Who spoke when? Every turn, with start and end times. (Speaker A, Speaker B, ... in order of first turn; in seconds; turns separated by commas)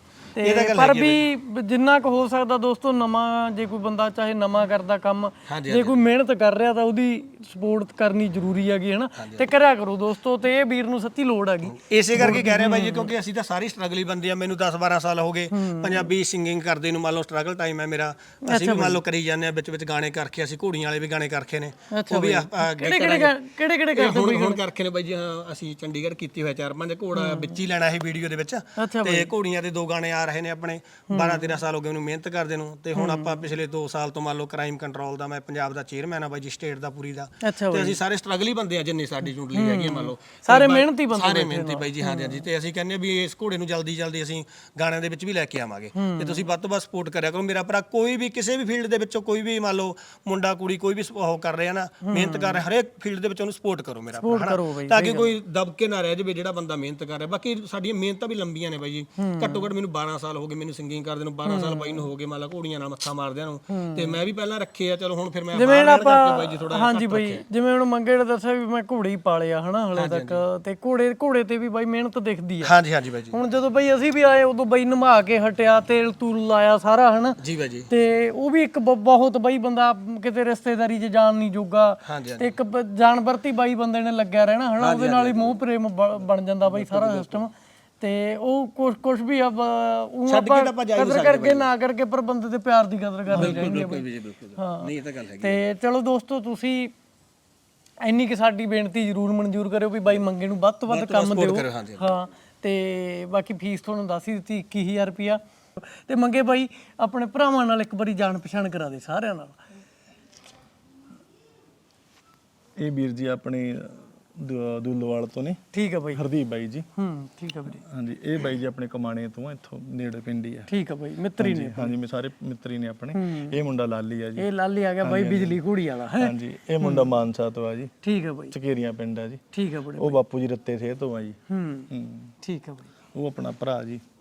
Speaker A: 0.4-13.1, Speaker B: 0.4-1.2, Speaker B: 5.5-6.0, Speaker B: 9.1-9.5, Speaker B: 11.7-67.4, Speaker A: 15.5-16.1, Speaker A: 18.4-19.0, Speaker A: 21.9-24.6, Speaker A: 27.1-27.6, Speaker A: 28.8-29.3, Speaker A: 31.1-31.5, Speaker A: 32.9-33.4, Speaker A: 37.4-38.0, Speaker A: 39.5-42.5, Speaker A: 46.0-46.5, Speaker A: 52.0-52.6, Speaker A: 54.1-55.4, Speaker A: 59.2-59.7, Speaker A: 61.4-62.1, Speaker A: 63.7-64.2, Speaker A: 65.5-72.7, Speaker B: 70.0-70.4, Speaker B: 72.6-73.4, Speaker A: 73.3-94.0, Speaker B: 77.4-77.9, Speaker B: 82.0-82.5, Speaker B: 84.8-85.6, Speaker B: 86.6-87.4, Speaker B: 90.3-91.7, Speaker B: 93.3-95.6, Speaker A: 94.5-96.9, Speaker A: 98.0-109.6, Speaker B: 100.9-102.2, Speaker C: 112.8-115.6, Speaker A: 115.7-116.2, Speaker C: 116.1-116.9, Speaker A: 117.0-117.8, Speaker C: 117.8-120.7, Speaker A: 120.7-122.0, Speaker C: 121.4-124.5, Speaker A: 123.1-123.5, Speaker A: 124.4-127.1, Speaker C: 125.0-125.6, Speaker C: 126.2-127.9, Speaker A: 128.0-128.5, Speaker C: 128.5-129.4, Speaker A: 129.5-130.2, Speaker C: 130.0-131.4, Speaker A: 131.5-131.9, Speaker C: 131.9-132.3, Speaker A: 132.4-132.9, Speaker C: 133.1-134.0